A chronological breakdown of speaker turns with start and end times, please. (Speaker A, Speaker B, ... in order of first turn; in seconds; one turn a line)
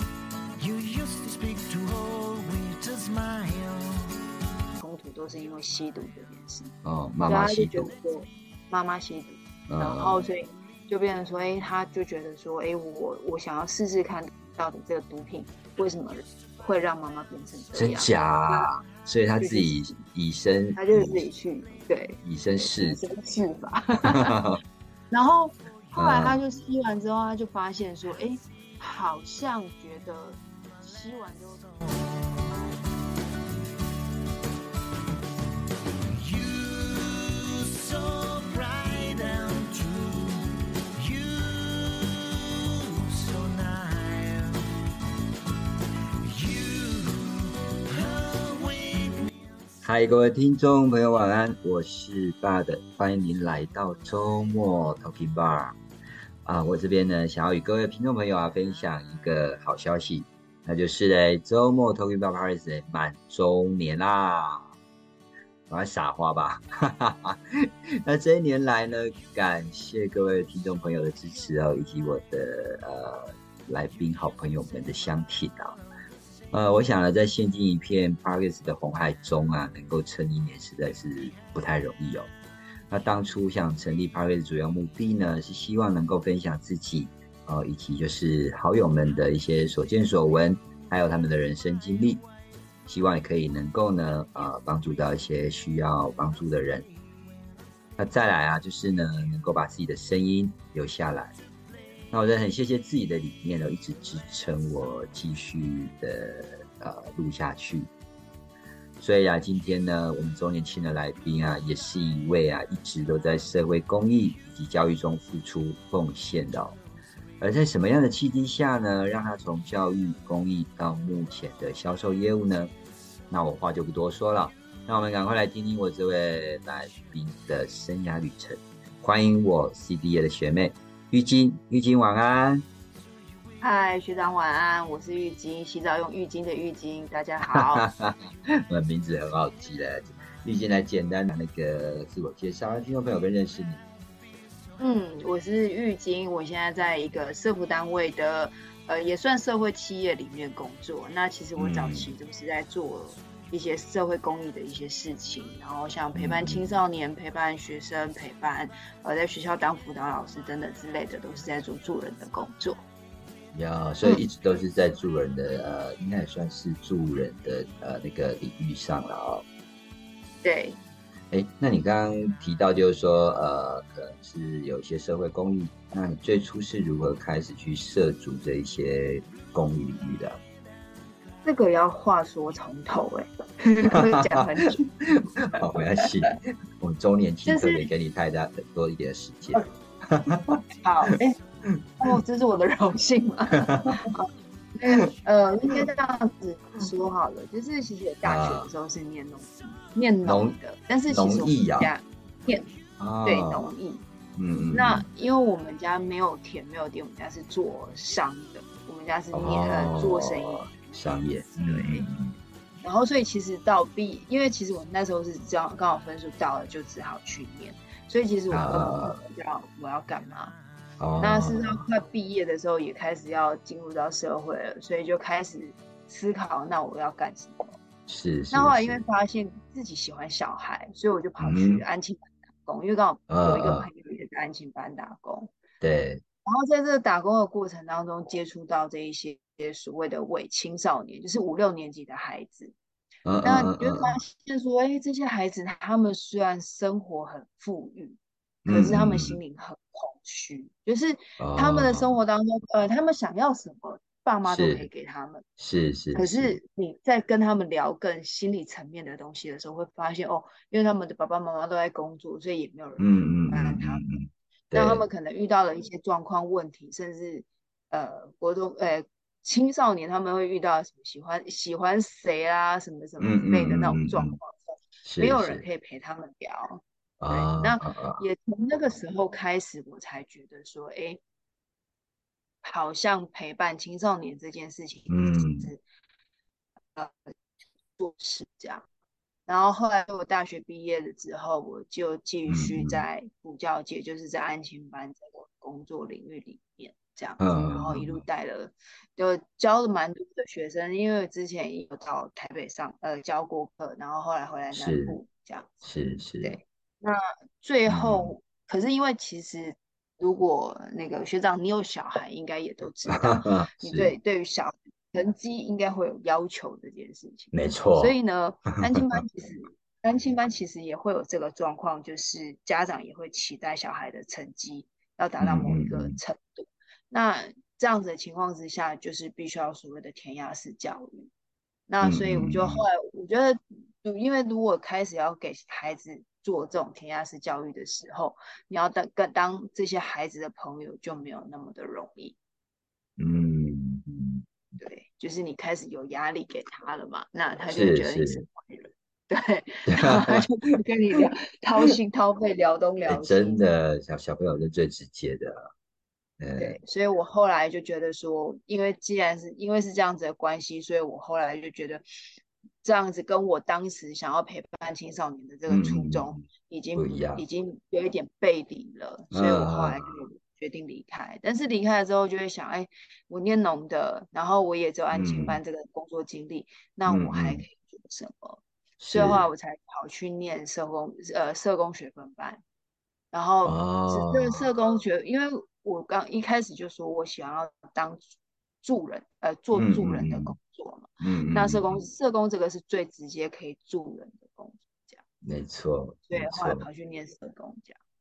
Speaker A: 0.6-4.2
Speaker B: 4.8-6.7
Speaker C: 6.8-7.9
Speaker B: 7.2-18.7
Speaker C: 9.7-10.3
Speaker C: 17.8-21.3
Speaker B: 19.4-20.0
Speaker B: 20.7-24.4
Speaker C: 22.2-23.0
Speaker C: 24.1-24.6
Speaker B: 25.1-31.8
Speaker C: 25.9-26.4
Speaker A: 31.9-32.5
Speaker A: 36.1-44.6
Speaker A: 46.2-49.3
Speaker C: 49.8-55.8
Speaker C: 56.5-64.7
Speaker C: 65.7-75.8
Speaker C: 76.5-82.3
Speaker C: 82.9-92.2
Speaker C: 92.9-96.9
Speaker C: 98.0-101.3
Speaker C: 102.1-107.9
Speaker C: 109.0-116.8
Speaker C: 117.4-122.7
Speaker C: 123.3-132.7
Speaker B: 133.6-137.9
Speaker C: 137.4-143.8
Speaker B: 144.8-162.8
Speaker C: 151.6-152.1
Speaker C: 156.2-156.8
Speaker C: 163.5-169.4
Speaker B: 170.4-170.8
Speaker C: 171.3-180.4
Speaker B: 181.4-184.9
Speaker C: 183.9-184.4
Speaker C: 185.1-190.6
Speaker B: 185.6-186.3
Speaker B: 187.4-187.9
Speaker B: 190.8-191.4
Speaker C: 191.7-192.2
Speaker B: 192.0-204.1
Speaker C: 193.6-193.9
Speaker C: 198.2-198.7
Speaker C: 200.2-200.6
Speaker C: 201.1-201.9
Speaker C: 203.0-203.7
Speaker C: 204.3-205.1
Speaker B: 204.7-210.7
Speaker C: 209.3-212.3
Speaker B: 211.7-212.1
Speaker B: 212.8-220.6
Speaker C: 218.5-219.2
Speaker C: 221.0-221.8
Speaker B: 221.2-227.8
Speaker C: 228.1-229.0
Speaker B: 228.5-235.5
Speaker C: 231.4-231.8
Speaker C: 233.3-233.9
Speaker C: 235.8-236.2
Speaker B: 236.4-242.8
Speaker C: 243.2-244.2
Speaker B: 243.4-255.4
Speaker C: 248.7-249.4
Speaker C: 251.4-252.1
Speaker C: 254.5-254.9
Speaker C: 255.6-256.6
Speaker B: 256.1-264.0
Speaker C: 263.0-265.0
Speaker B: 264.7-281.2
Speaker C: 273.2-274.4
Speaker C: 275.0-275.6
Speaker C: 277.2-278.2
Speaker B: 282.6-285.8
Speaker C: 285.1-285.7
Speaker B: 288.0-288.9
Speaker B: 289.5-305.7
Speaker C: 292.5-293.0
Speaker C: 297.4-298.2
Speaker C: 304.7-305.2
Speaker C: 305.8-306.6
Speaker B: 306.4-331.3
Speaker C: 307.9-308.3
Speaker C: 313.1-314.1
Speaker C: 317.5-318.2
Speaker C: 318.9-319.2
Speaker C: 325.4-326.2
Speaker B: 331.9-342.4
Speaker C: 332.0-332.9
Speaker C: 343.2-344.4
Speaker B: 344.8-353.6
Speaker C: 347.7-348.4
Speaker C: 349.9-350.5
Speaker C: 353.1-355.7
Speaker C: 356.4-356.8
Speaker B: 356.6-362.0
Speaker B: 362.8-382.6
Speaker C: 365.7-366.4
Speaker C: 367.0-367.4
Speaker C: 369.3-370.1
Speaker C: 375.1-375.6
Speaker C: 377.1-377.6
Speaker C: 379.0-379.4
Speaker B: 383.3-388.3
Speaker C: 383.6-384.7
Speaker B: 388.8-395.2
Speaker C: 389.7-390.6
Speaker C: 391.2-392.0
Speaker C: 395.4-396.8
Speaker B: 396.3-398.0